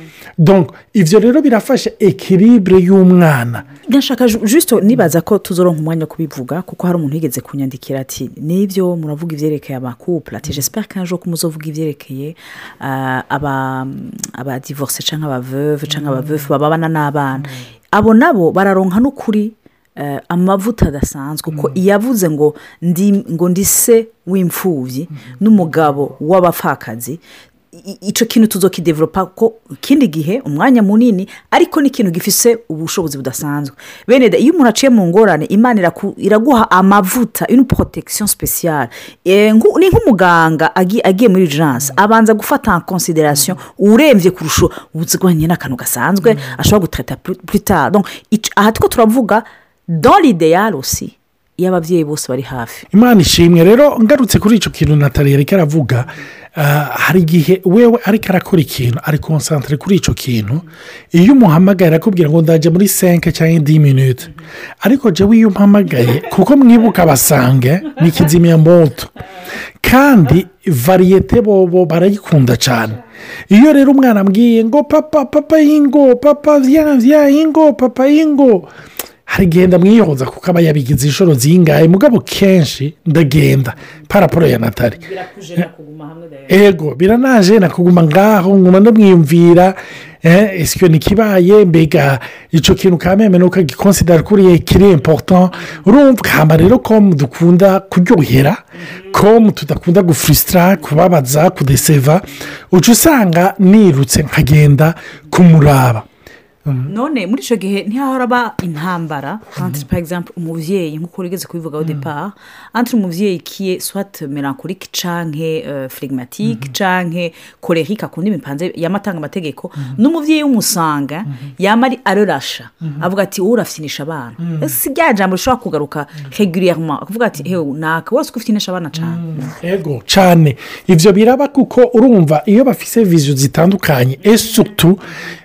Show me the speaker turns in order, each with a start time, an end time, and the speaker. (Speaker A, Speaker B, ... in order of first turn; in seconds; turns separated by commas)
Speaker A: 0.4-3.7, Speaker B: 3.7-27.2, Speaker A: 17.4-17.6, Speaker A: 21.5-21.8, Speaker A: 25.1-25.4, Speaker B: 27.7-52.9, Speaker A: 52.9-69.2, Speaker A: 69.8-78.7, Speaker A: 79.3-85.0, Speaker B: 84.9-86.6, Speaker A: 86.5-106.0, Speaker A: 106.6-106.9, Speaker B: 106.8-129.5, Speaker A: 124.4-124.7, Speaker A: 128.9-135.1